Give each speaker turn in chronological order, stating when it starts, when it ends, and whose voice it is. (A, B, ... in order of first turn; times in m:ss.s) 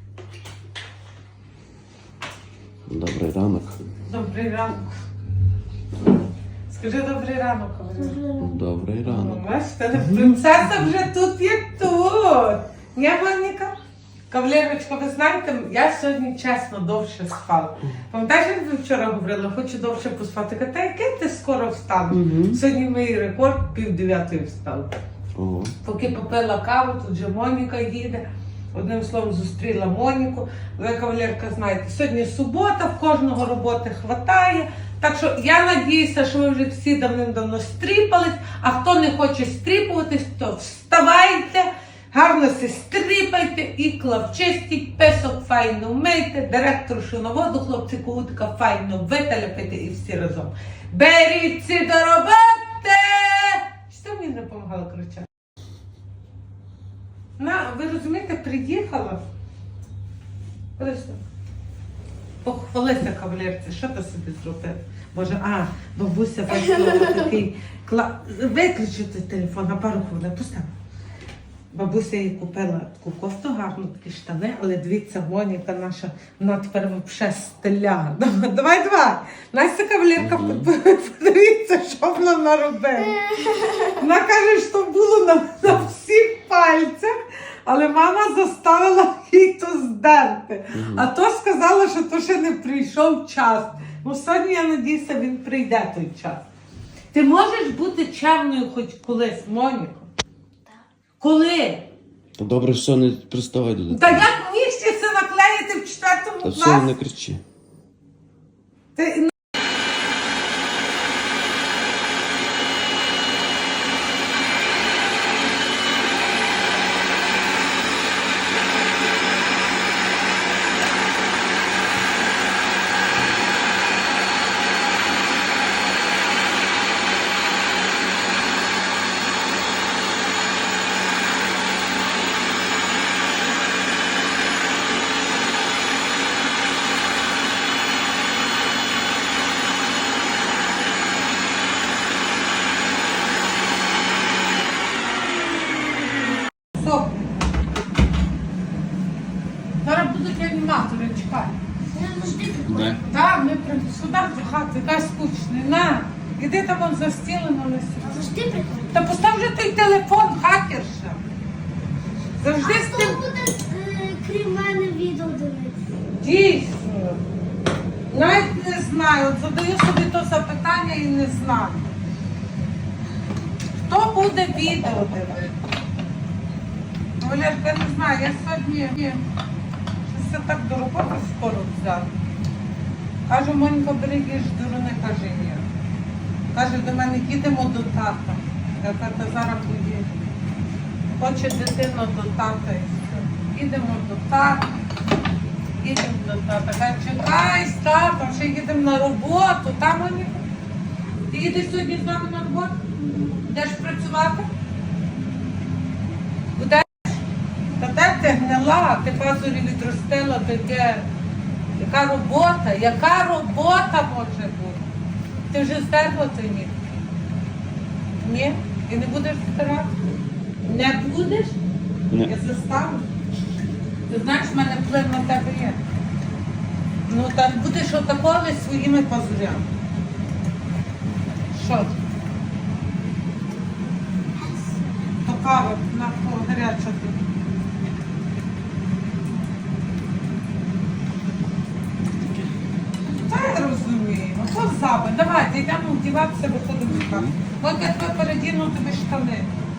0:02.9-0:03.8 A
0:04.0-0:04.9 B
0:06.7-0:08.2 B
0:08.0-0:08.6 C
0:08.4-0:10.7 A
0:09.0-0:13.8 B
0:14.3-0:24.9 B
0:22.1-0:22.6 A
0:25.4-0:25.8 A
0:25.8-0:55.3 B
0:57.4-0:59.2 B
1:00.8-1:01.2 B
1:02.4-1:10.7 B
1:11.7-1:23.2 B
1:20.2-1:20.7 A
1:23.2-1:23.9 C
1:24.0-1:36.4 B
1:30.8-1:31.1 A
1:37.1-1:40.1 B
1:41.2-1:41.9 B
1:42.4-1:44.3 A
1:43.9-1:47.0 B
1:46.4-1:47.4 A
1:49.0-1:49.3 B
2:26.8-2:27.3 B
2:29.8-2:31.5 B
2:31.9-2:33.1 C
2:32.7-2:33.0 A
2:33.0-2:38.3 B
2:38.0-2:39.1 C
2:38.9-2:41.2 B
2:42.4-2:43.2 B
2:42.6-2:45.9 C
2:46.2-2:47.2 B
2:48.1-2:51.9 B
2:53.9-2:55.5 B
2:57.2-2:59.2 B
3:00.1-3:02.1 B
3:03.3-3:05.7 B
3:06.5-3:10.1 B
3:11.1-3:14.7 B
3:15.8-3:20.4 B
3:21.3-3:24.5 B
3:26.6-3:27.2 B
3:27.8-3:31.1 B
3:31.8-3:34.8 B
3:35.5-3:36.8 B
3:38.2-3:40.0 B
3:40.6-3:41.6 B
3:42.2-3:43.1 B
3:44.1-3:45.8 B
3:47.1-3:49.7 B
3:51.5-3:51.9 B
3:54.4-3:54.9 C
3:55.2-3:57.2 B
4:03.2-4:09.5 B
4:06.9-4:07.4 A